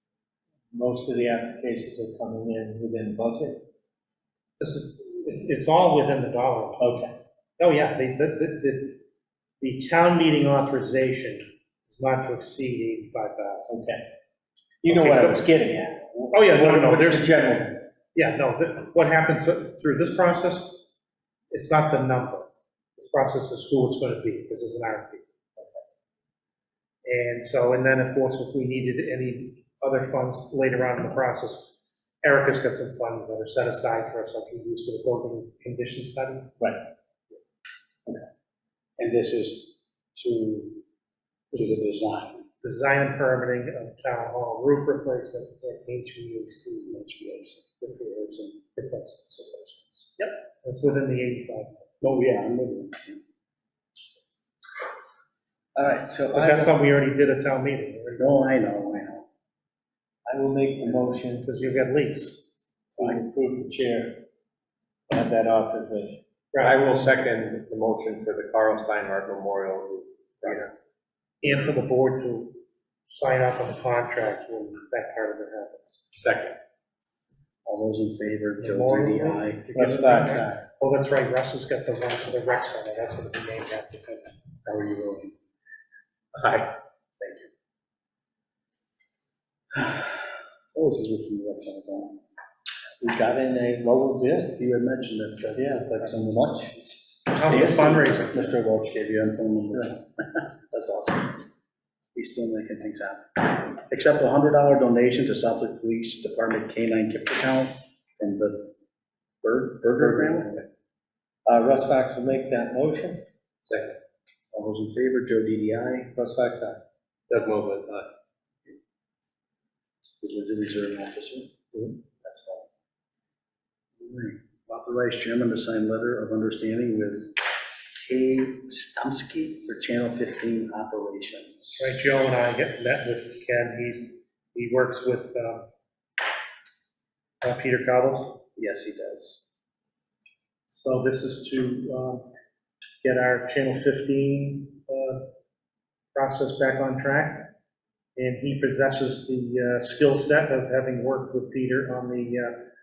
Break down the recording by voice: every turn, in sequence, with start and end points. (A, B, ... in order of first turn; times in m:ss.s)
0:00.7-0:03.6 A
0:04.6-0:07.0 B
0:06.8-0:07.1 A
0:07.6-0:09.0 B
0:09.6-0:13.7 B
0:13.7-0:14.0 A
0:14.8-0:17.8 A
0:14.9-0:15.4 B
0:16.3-0:17.4 B
0:18.1-0:20.8 B
0:21.5-0:25.2 B
0:27.0-0:36.5 B
0:39.0-0:40.8 C
0:41.5-0:41.8 B
0:41.5-0:42.4 C
0:42.6-0:47.0 B
0:46.9-0:48.6 C
0:48.6-0:51.7 B
0:49.7-0:50.0 C
0:52.0-0:53.2 C
0:55.7-0:56.7 A
0:56.3-0:58.6 B
0:58.2-0:59.2 C
1:00.2-1:01.5 A
1:01.4-1:02.4 B
1:02.9-1:04.2 A
1:05.1-1:06.2 A
1:06.5-1:06.8 B
1:06.6-1:10.6 D
1:11.4-1:16.0 B
1:16.1-1:16.6 D
1:17.6-1:19.7 C
1:18.6-1:24.4 B
1:19.7-1:20.6 A
1:24.6-1:25.3 C
1:26.3-1:26.7 D
1:27.2-1:27.5 C
1:29.7-1:32.2 C
1:33.0-1:34.6 A
1:34.5-1:36.7 C
1:35.6-1:38.6 A
1:37.3-1:38.4 B
1:37.3-1:41.4 C
1:42.1-1:48.7 C
1:49.4-1:50.6 C
1:50.0-1:50.5 A
1:51.4-1:53.2 A
1:53.6-1:54.0 D
1:54.5-1:56.1 C
1:56.1-1:56.8 A
1:57.3-1:58.1 D
2:00.2-2:01.6 C
2:02.2-2:02.7 C
2:04.0-2:11.9 C
2:11.8-2:15.7 B
2:17.4-2:18.4 B
2:18.6-2:19.4 C
2:20.7-2:22.3 B
2:23.0-2:25.2 B
2:26.1-2:27.5 B
2:28.2-2:32.6 B